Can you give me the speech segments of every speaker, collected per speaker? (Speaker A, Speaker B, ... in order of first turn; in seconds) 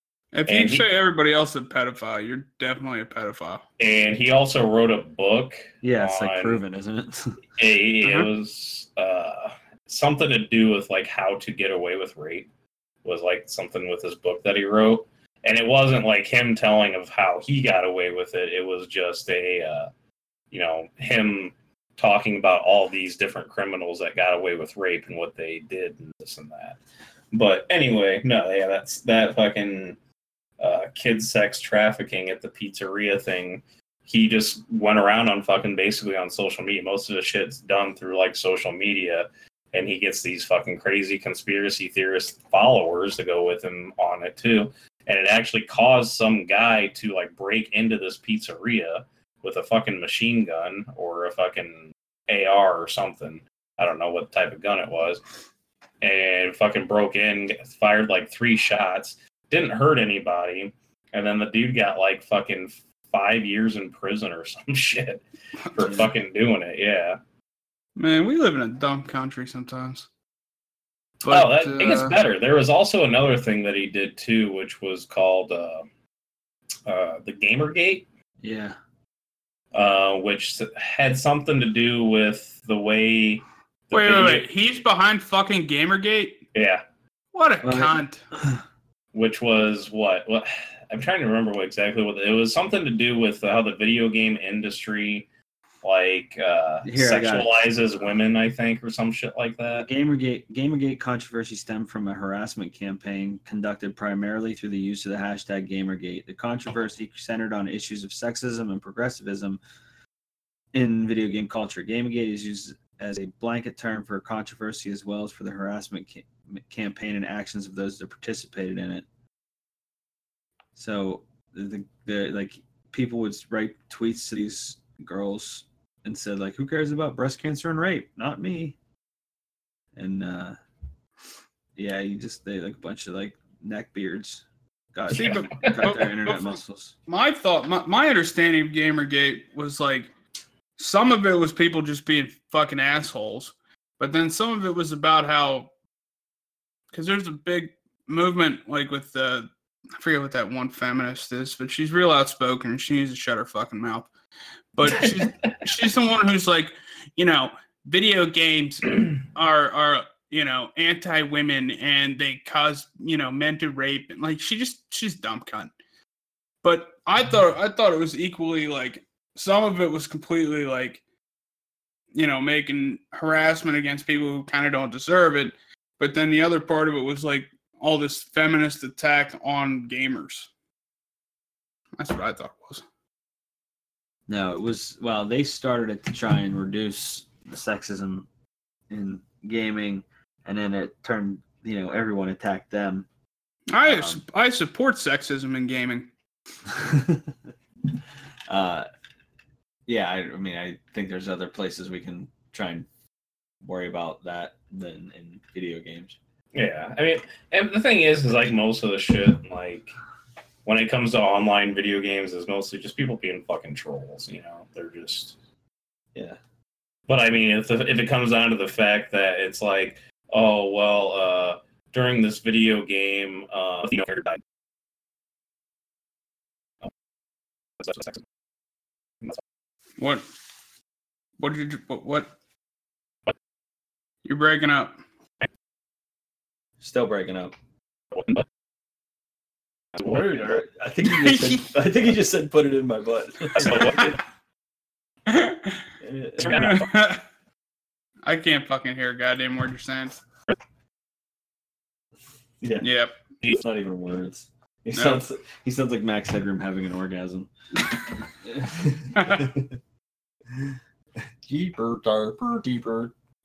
Speaker A: 0.3-3.6, 8.0-8.3, 68.0-70.1, 71.2-72.2, 83.9-86.4, 87.3-88.2, 135.1-140.1, 140.8-145.7, 146.9-154.1, 154.7-165.7, 166.6-171.0, 172.1-180.5, 182.0-182.8, 193.7-196.1, 230.0-230.2, 231.4-232.3, 234.2-234.9, 241.0-241.6, 245.3-245.8, 246.4-247.2, 248.2-250.2, 252.8-253.1, 254.9-255.2, 259.2-259.5
Speaker B: 0.5-0.8, 3.8-6.6, 7.6-12.5, 13.0-19.9, 20.5-26.8, 27.3-30.0, 30.6-55.2, 56.0-67.2, 71.3-75.8, 76.8-78.1, 79.7-84.5, 86.5-86.8, 89.1-95.3, 95.8-99.9, 135.2-135.9, 154.8-155.6, 206.5-209.9, 210.6-215.3, 217.1-224.4, 227.8-228.2, 238.1-238.4, 239.9-240.5, 243.5-244.2, 246.4-246.9
Speaker C: 5.8-7.4, 65.8-66.1, 78.4-78.8, 87.6-88.6, 96.8-97.5, 99.7-109.6, 110.7-119.0, 120.8-128.8, 129.9-130.6, 131.8-136.9, 184.3-188.3, 188.9-193.1, 193.8-194.2, 196.7-197.3, 198.5-198.9, 199.9-202.9, 203.6-206.2, 236.8-237.5, 240.0-244.2, 246.0-246.5, 252.6-252.9, 253.5-257.5, 258.4-259.7, 261.4-263.1